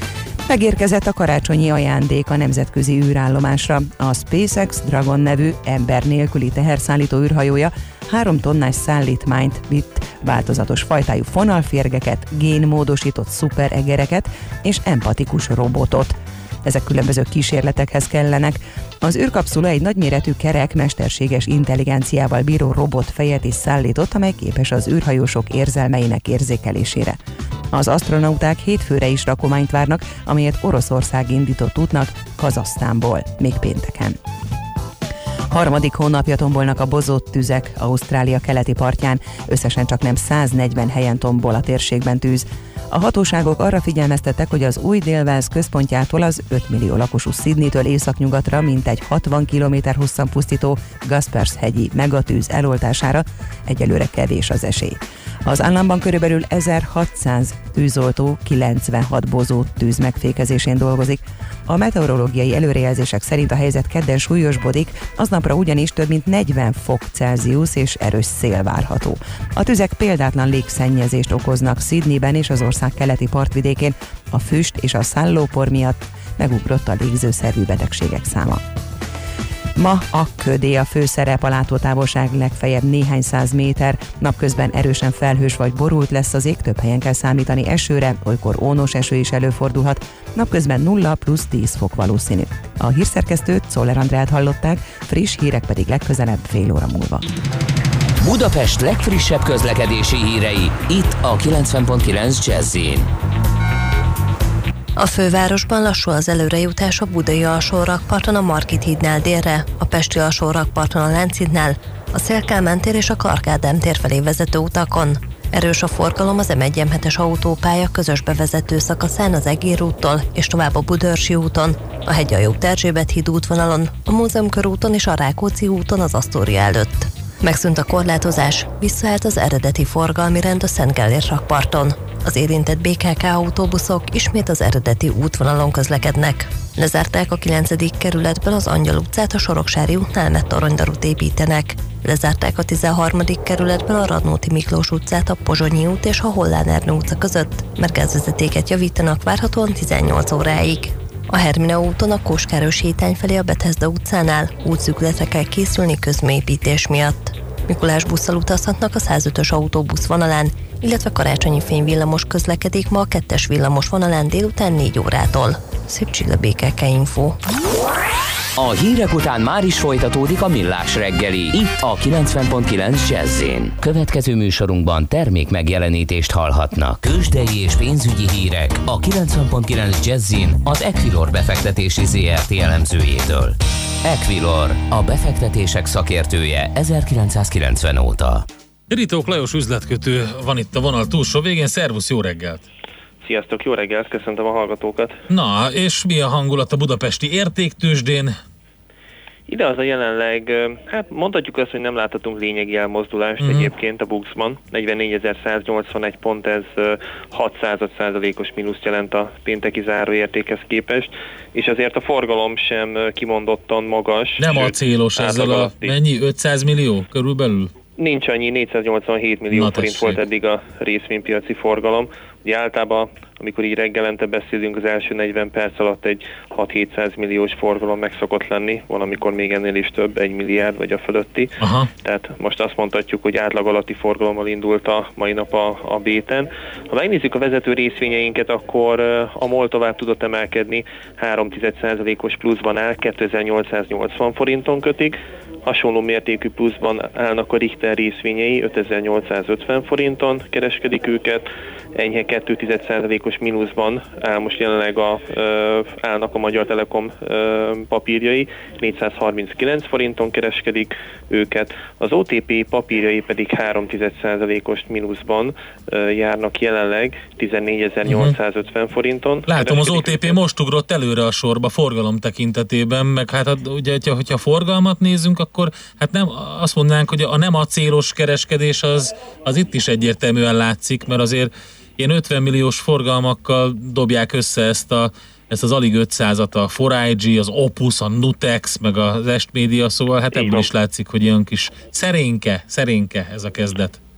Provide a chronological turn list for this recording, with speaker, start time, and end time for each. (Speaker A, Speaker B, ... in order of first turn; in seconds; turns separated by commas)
Speaker A: 0.5-27.2, Speaker A: 27.7-34.2, Speaker A: 35.5-78.6, Speaker A: 79.8-97.2, Speaker B: 98.2-103.1, Speaker C: 105.0-167.4, Speaker B: 168.6-188.4, Speaker D: 188.9-192.6, Speaker E: 193.2-195.2, Speaker D: 195.3-198.3, Speaker E: 199.5-216.0, Speaker D: 203.4-203.7, Speaker D: 214.4-217.7, Speaker E: 218.0-270.4, Speaker D: 219.5-220.2, Speaker D: 231.6-231.9, Speaker D: 268.1-268.4, Speaker D: 269.5-294.0, Speaker E: 290.3-290.7